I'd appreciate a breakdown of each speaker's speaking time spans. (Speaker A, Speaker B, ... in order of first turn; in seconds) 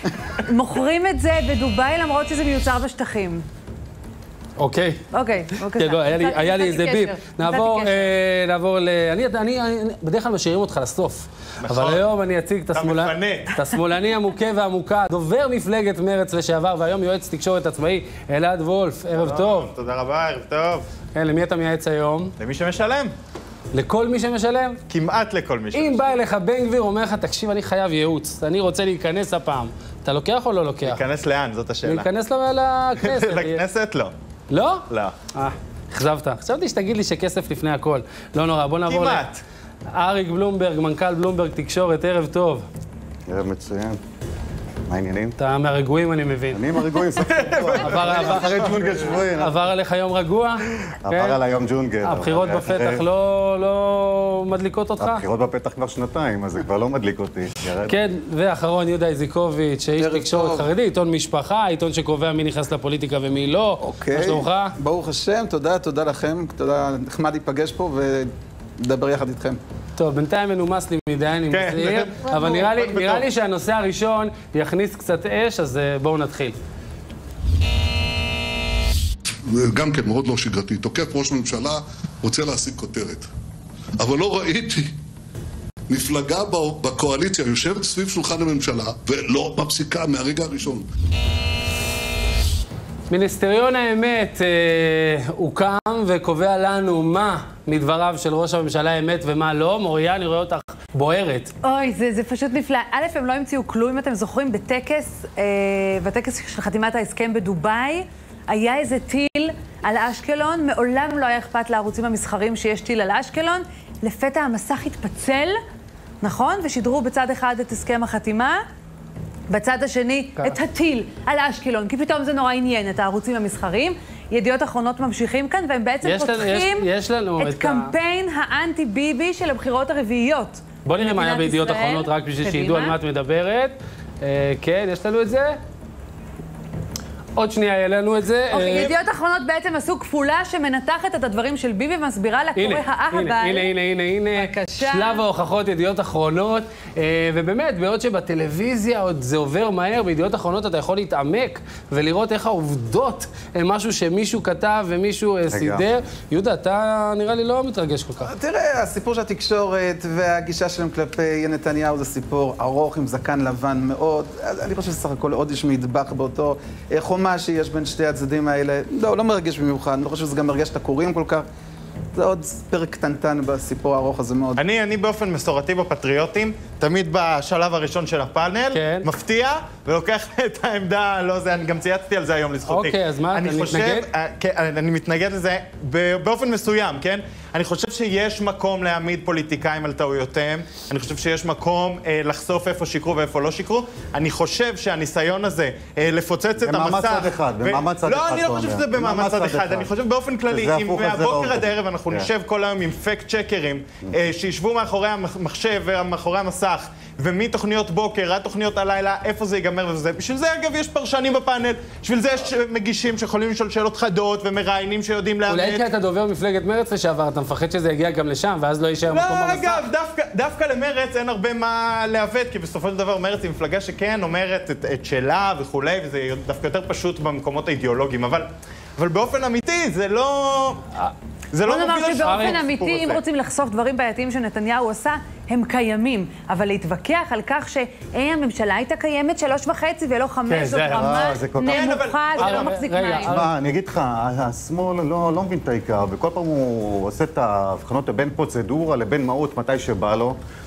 Speaker A: 0.5-3.4, 5.1-8.1, 101.6-115.6, 116.2-118.6, 119.5-126.9, 127.4-133.0, 138.5-143.7, 144.3-145.2, 231.7-243.4
Speaker B: 4.6-5.0, 5.7-19.7, 21.1-22.3, 23.7-24.8, 25.7-31.0, 31.9-33.6, 34.5-39.2, 39.9-42.7, 45.4-46.6, 47.8-51.4, 52.0-55.2, 57.9-64.7, 70.0-76.6, 93.1-101.5, 126.0-127.9, 130.8-135.6, 137.4-138.9, 142.6-158.3, 178.7-179.1, 182.7-184.1, 215.5-219.8, 232.2-232.6, 240.5-241.1, 242.4-243.5
Speaker C: 11.6-12.0, 12.7-13.5, 19.1-20.9, 22.4-23.1, 24.9-26.2, 30.8-32.1, 33.0-34.1, 34.9-35.1, 38.9-39.4, 47.2-49.1, 71.5-73.3, 174.6-215.9, 219.1-230.8, 231.5-233.2, 241.6-242.8
Speaker D: 43.3-44.0, 44.9-45.4, 46.5-49.6, 51.0-53.0, 55.0-58.0, 155.5-155.8, 196.6-199.9, 200.5-202.3, 240.9-241.9, 243.3-250.4
Speaker E: 60.0-60.7, 63.8-68.3, 68.8-69.6, 158.3-171.4, 172.2-174.6
Speaker F: 79.5-83.3, 84.0-84.9, 85.9-90.9